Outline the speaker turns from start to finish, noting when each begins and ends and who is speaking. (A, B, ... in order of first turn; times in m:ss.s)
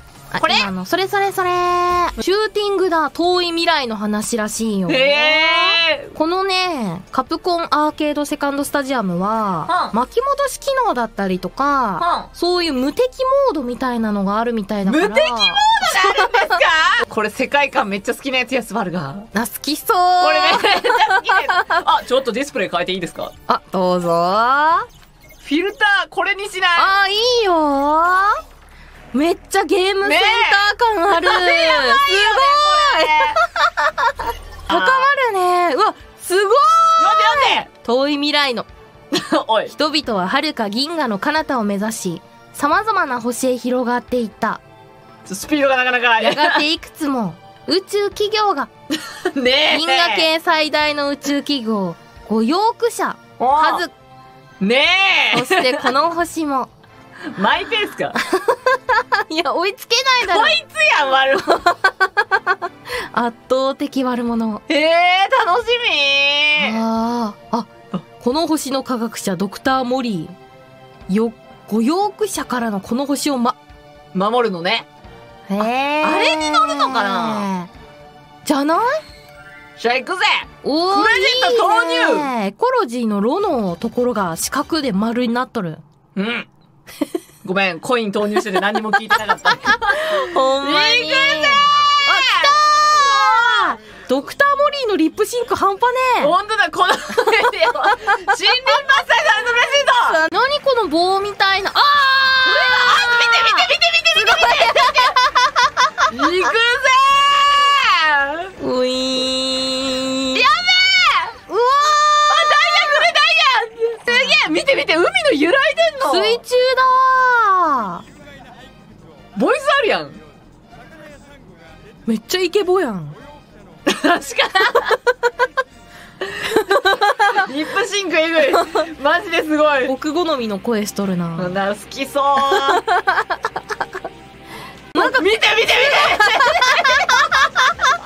0:00.3-0:16.6 A
0:00.4-0:00.7 B
0:04.9-0:06.1 B
0:09.6-0:10.0 B
0:12.0-0:12.3 B
0:14.8-0:19.3 B
0:19.3-0:21.8 A
0:20.2-0:23.3 B
0:23.5-0:24.9 A
0:25.4-0:26.9 B
0:26.8-0:28.4 A
0:29.1-0:38.7 A
0:30.0-0:33.4 B
0:34.7-0:35.1 B
0:37.0-0:37.7 B
0:39.1-0:39.7 B
0:39.7-0:44.6 A
0:45.2-0:46.6 B
0:46.2-0:48.7 A
0:49.0-0:50.3 B
0:49.7-0:53.9 A
0:53.4-0:53.8 B
0:54.6-0:55.9 B
0:55.3-0:56.7 A
0:57.3-0:58.2 B
0:58.3-1:00.6 A
1:00.2-1:01.7 B
1:01.6-1:04.6 A
1:04.7-1:06.8 B
1:06.6-1:10.3 A
1:11.1-1:13.6 A
1:14.1-1:14.9 B
1:15.5-1:17.7 A
1:15.6-1:17.5 B
1:18.4-1:19.0 A
1:19.8-1:22.3 B
1:20.6-1:25.8 A
1:26.1-1:26.5 B
1:27.4-1:33.7 B
1:29.6-1:36.3 A
1:36.2-1:40.2 B
1:40.0-1:46.0 A
1:42.4-1:45.1 B
1:46.1-1:48.5 B
1:48.6-1:50.4 A
1:50.3-1:51.4 B
1:51.5-1:52.8 A
1:52.3-1:56.4 B
1:54.1-1:54.3 A
1:56.0-1:58.0 A
1:59.3-2:00.2 B
2:02.0-2:03.2 A
2:03.8-2:05.0 B
2:06.6-2:07.4 A
2:07.2-2:09.9 B
2:09.9-2:11.6 A
2:11.4-2:12.8 B
2:12.4-2:13.8 A
2:14.9-2:17.3 A
2:15.0-2:17.9 B